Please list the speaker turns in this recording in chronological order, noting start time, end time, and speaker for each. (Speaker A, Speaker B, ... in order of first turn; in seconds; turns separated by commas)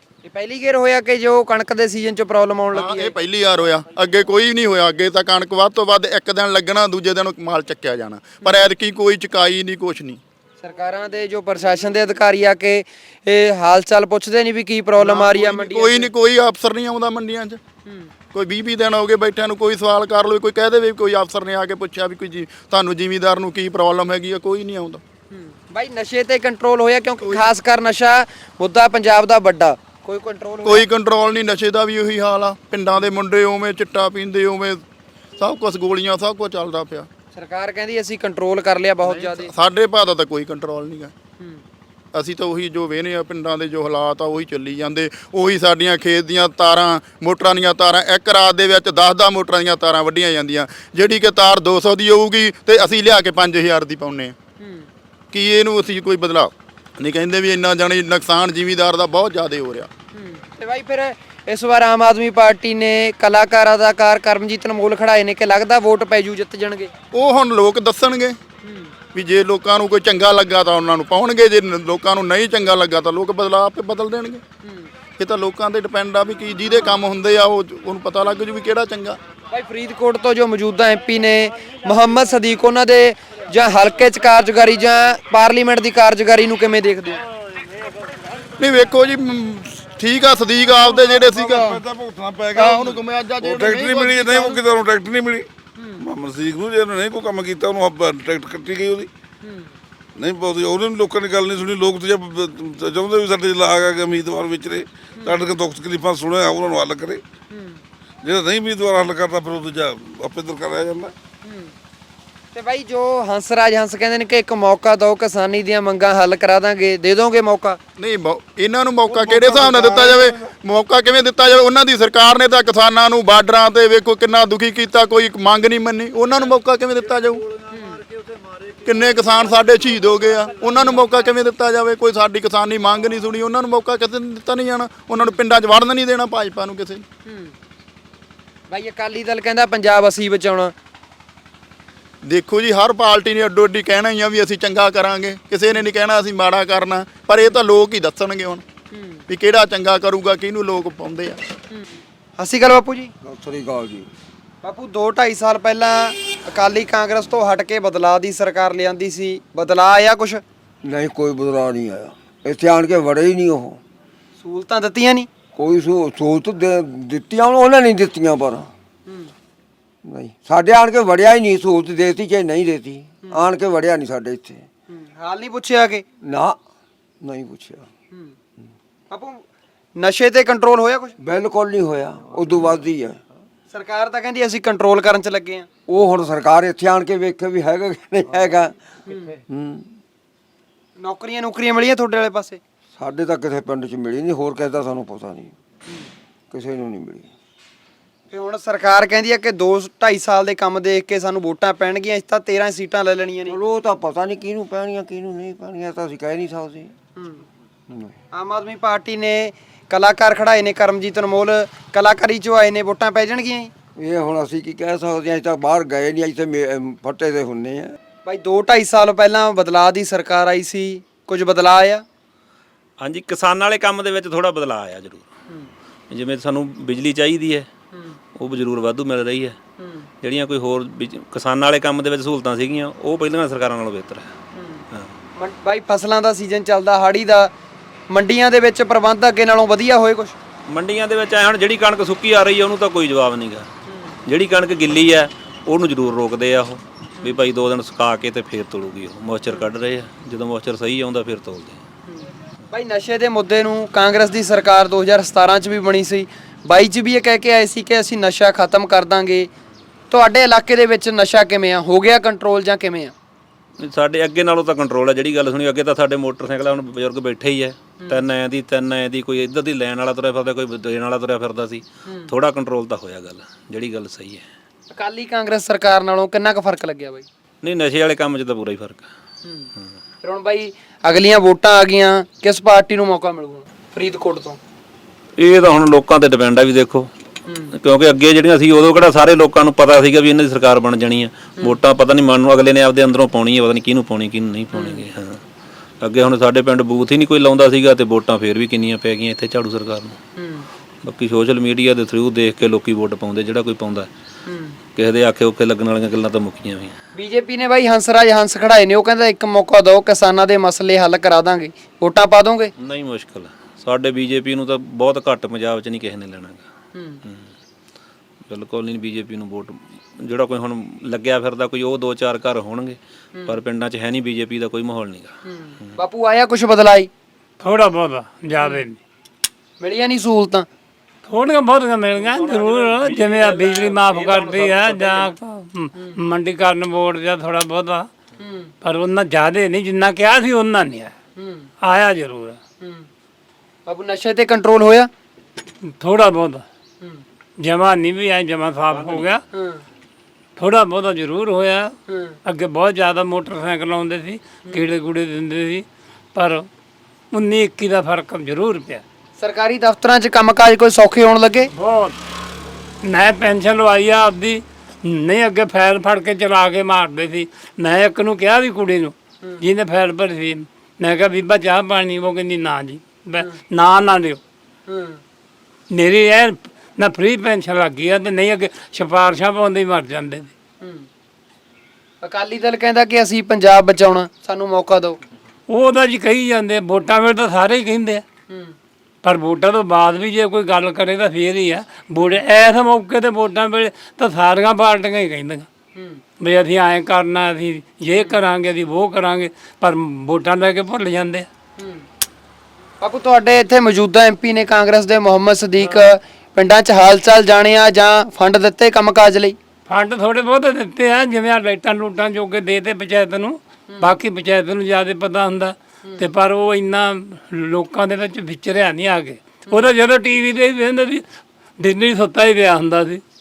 Speaker A: 0.2-3.1, Speaker B: 2.7-10.2, Speaker A: 8.4-8.7, Speaker A: 10.6-16.1, Speaker B: 15.0-17.6, Speaker B: 18.3-25.0, Speaker A: 25.3-30.9, Speaker B: 30.6-34.8, Speaker B: 35.4-37.1, Speaker A: 37.3-39.5, Speaker B: 39.1-41.1, Speaker B: 42.1-54.4, Speaker A: 54.6-54.9, Speaker B: 55.3-59.9, Speaker A: 60.1-66.9, Speaker B: 67.1-68.4, Speaker A: 68.6-68.9, Speaker B: 69.1-74.4, Speaker A: 74.6-74.9, Speaker B: 75.2-79.2, Speaker A: 79.5-87.2, Speaker B: 88.6-91.8, Speaker C: 90.8-95.5, Speaker B: 92.5-94.6, Speaker A: 95.8-96.0, Speaker C: 96.0-99.1, Speaker A: 99.4-99.7, Speaker C: 100.2-107.2, Speaker A: 107.5-107.8, Speaker C: 108.2-111.1, Speaker A: 111.5-111.7, Speaker A: 112.5-117.8, Speaker B: 118.0-127.5, Speaker C: 119.1-120.4, Speaker A: 127.7-128.0, Speaker B: 128.8-137.0, Speaker A: 137.3-137.6, Speaker A: 138.7-140.7, Speaker B: 142.2-148.6, Speaker A: 148.9-149.2, Speaker B: 149.3-151.4, Speaker A: 152.4-153.1, Speaker D: 153.2-154.1, Speaker A: 154.6-160.4, Speaker D: 160.8-163.8, Speaker A: 164.4-165.3, Speaker D: 165.6-168.7, Speaker D: 170.1-174.7, Speaker A: 174.9-176.1, Speaker D: 176.2-176.6, Speaker D: 177.2-177.9, Speaker A: 179.1-179.4, Speaker A: 180.0-181.1, Speaker D: 181.2-183.2, Speaker A: 183.7-185.7, Speaker D: 185.9-189.9, Speaker A: 191.0-192.6, Speaker D: 193.0-195.5, Speaker D: 196.5-197.3, Speaker A: 198.3-203.6, Speaker D: 203.5-206.9, Speaker A: 207.2-207.4, Speaker A: 208.3-213.7, Speaker D: 214.0-217.9, Speaker A: 218.3-222.0, Speaker E: 223.0-225.3, Speaker E: 226.1-227.7, Speaker E: 228.3-229.6, Speaker A: 229.8-230.1, Speaker E: 230.2-234.3, Speaker A: 234.6-234.8, Speaker A: 235.4-237.5, Speaker A: 238.1-240.3, Speaker E: 240.7-243.7, Speaker A: 243.9-244.2, Speaker E: 244.3-251.8, Speaker A: 252.1-259.5, Speaker A: 260.1-263.1, Speaker E: 263.8-274.4, Speaker A: 268.0-268.2, Speaker A: 274.9-277.3, Speaker E: 277.6-279.1, Speaker A: 280.2-284.6, Speaker E: 285.4-287.1, Speaker A: 287.5-287.7, Speaker E: 287.7-295.4, Speaker A: 294.7-295.0, Speaker E: 296.0-300.2, Speaker A: 300.4-300.7, Speaker E: 301.0-304.1, Speaker A: 304.5-304.8, Speaker E: 304.9-307.0, Speaker A: 307.1-312.7, Speaker E: 312.8-316.6, Speaker A: 316.9-317.2, Speaker E: 318.5-325.4, Speaker A: 325.4-327.1, Speaker F: 327.6-329.0, Speaker A: 329.8-330.7, Speaker F: 331.2-338.1, Speaker A: 332.4-332.8, Speaker A: 334.3-334.7, Speaker A: 338.4-338.7, Speaker F: 338.8-341.1, Speaker A: 341.4-341.7, Speaker F: 341.8-342.6, Speaker A: 342.8-343.1, Speaker A: 343.9-345.1, Speaker F: 345.9-346.6, Speaker F: 347.6-349.4, Speaker A: 349.5-349.8, Speaker F: 350.6-351.9, Speaker A: 352.1-352.4, Speaker F: 352.4-356.7, Speaker F: 357.3-359.0, Speaker A: 359.4-361.7, Speaker F: 361.7-362.2, Speaker F: 363.0-374.4, Speaker A: 374.9-375.2, Speaker F: 375.9-380.5, Speaker A: 380.8-381.1, Speaker A: 382.2-385.2, Speaker F: 385.7-388.2, Speaker A: 388.5-388.8, Speaker F: 389.2-395.7, Speaker A: 396.0-396.2, Speaker F: 396.4-401.5, Speaker A: 398.1-398.4, Speaker A: 401.8-402.1, Speaker A: 403.0-409.6, Speaker F: 409.9-421.2, Speaker A: 413.9-414.2, Speaker F: 421.8-423.2